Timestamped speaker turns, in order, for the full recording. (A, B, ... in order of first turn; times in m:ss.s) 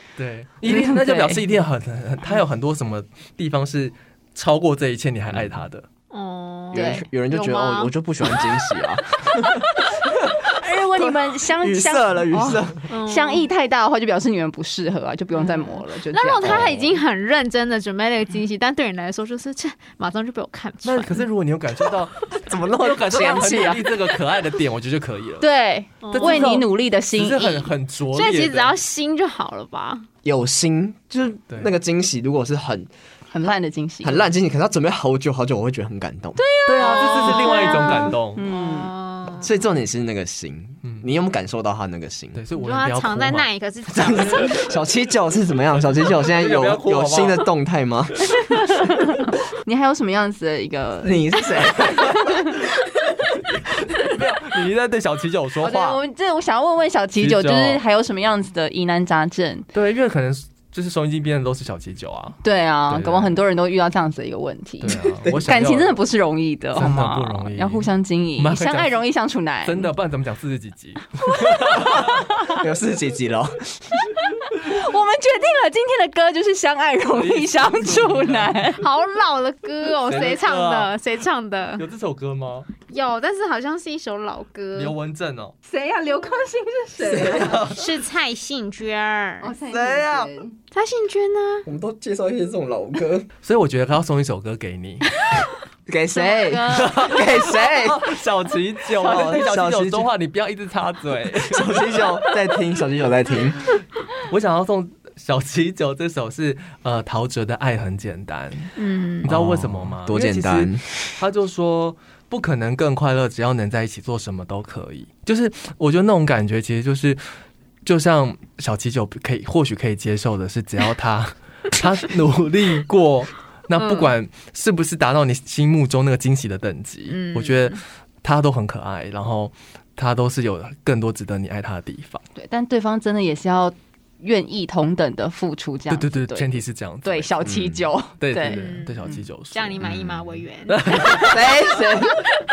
0:00.2-0:05.8 A
0:00.6-0:01.4 B
0:05.3-0:05.6 C
0:06.1-0:08.5 D
0:06.7-0:10.4 C
0:06.7-0:07.0 B
0:10.5-0:16.7 B
0:10.9-0:12.8 C
0:12.9-0:13.5 D
0:15.4-0:21.3 D
0:16.4-0:17.0 C
0:20.8-0:25.5 A
0:22.4-0:24.0 C
0:23.2-0:23.8 B
0:25.4-0:27.7 B
0:26.0-0:26.6 D
0:26.0-0:28.7 A
0:28.1-0:30.1 D
0:30.2-0:32.9 C
0:33.3-0:34.2 B
0:34.0-0:36.4 C
0:36.4-0:38.9 B
0:36.6-0:38.4 A
0:36.7-0:39.5 D
0:39.4-0:42.4 C
0:42.3-0:43.5 A
0:42.6-0:44.6 D
0:43.9-0:48.3 C
0:46.2-0:47.5 A
0:48.5-0:52.5 B
0:51.0-0:52.3 C
0:53.9-0:56.0 A
0:55.6-0:59.7 B
0:57.2-0:57.8 A
0:59.7-1:03.4 A
1:02.4-1:09.9 B
1:04.8-1:06.0 A
1:06.7-1:09.0 A
1:09.6-1:12.3 A
1:11.8-1:14.1 C
1:14.5-1:18.8 B
1:17.1-1:18.6 A
1:18.8-1:21.8 D
1:20.0-1:20.9 A
1:21.8-1:22.7 A
1:22.9-1:24.9 D
1:24.8-1:25.5 A
1:25.7-1:27.7 B
1:27.0-1:27.8 A
1:27.0-1:27.6 C
1:27.7-1:29.5 D
1:29.4-1:30.5 B
1:29.7-1:30.3 C
1:30.7-1:31.7 D
1:31.6-1:33.3 C
1:33.4-1:35.1 A
1:35.9-1:38.1 C
1:36.1-1:37.6 D
1:36.7-1:42.3 A
1:38.9-1:40.1 C
1:41.4-1:43.6 C
1:44.2-1:48.7 A
1:48.8-1:49.3 D
1:49.2-1:57.2 A
1:49.2-1:51.0 C
1:57.8-2:12.2 A
2:03.7-2:04.1 D
2:07.1-2:07.8 D
2:12.4-2:19.2 B
2:15.9-2:17.3 A
2:17.4-2:17.8 C
2:18.2-2:19.8 A
2:18.4-2:19.0 D
2:19.5-2:21.2 D
2:19.8-2:20.4 C
2:20.7-2:21.5 A
2:21.2-2:22.2 C